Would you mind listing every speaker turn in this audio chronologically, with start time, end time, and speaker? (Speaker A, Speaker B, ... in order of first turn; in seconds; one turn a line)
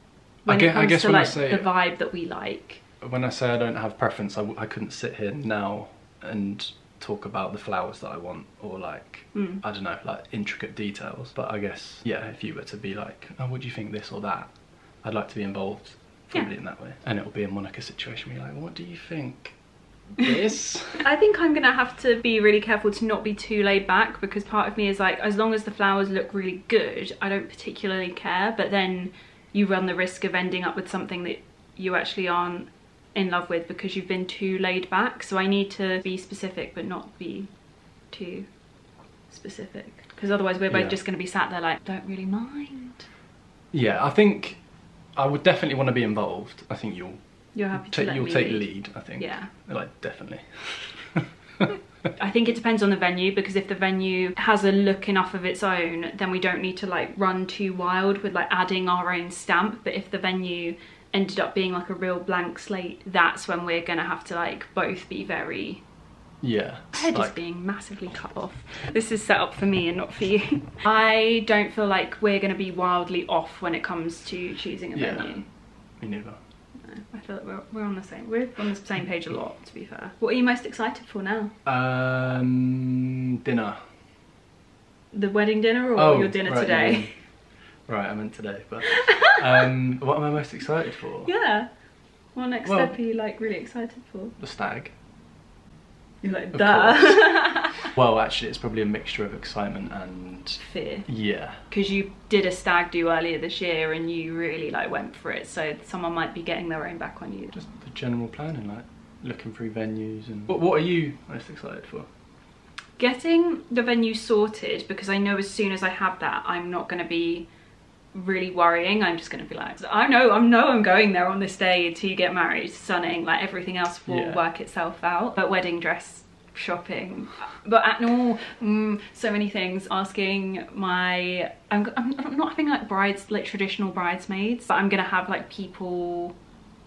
Speaker A: 0.4-2.8
Speaker B: 0.5-1.7
Speaker B: 3.0-19.6
Speaker A: 9.3-9.6
Speaker B: 20.1-21.1
Speaker A: 21.0-38.5
Speaker A: 39.3-43.1
Speaker B: 40.7-41.0
Speaker B: 43.7-51.7
Speaker A: 47.5-49.5
Speaker A: 52.1-65.8
Speaker B: 66.4-67.4
Speaker A: 66.9-75.5
Speaker B: 74.9-76.4
Speaker A: 76.8-81.5
Speaker B: 81.7-83.9
Speaker A: 85.1-87.1
Speaker B: 86.0-91.3
Speaker A: 89.0-89.4
Speaker A: 91.2-91.7
Speaker A: 92.3-94.4
Speaker B: 92.7-93.0
Speaker B: 94.4-94.9
Speaker A: 96.2-97.9
Speaker B: 96.5-101.6
Speaker A: 100.6-101.1
Speaker A: 101.6-107.5
Speaker B: 107.5-112.1
Speaker A: 113.0-117.5
Speaker A: 118.1-136.3
Speaker B: 124.1-124.4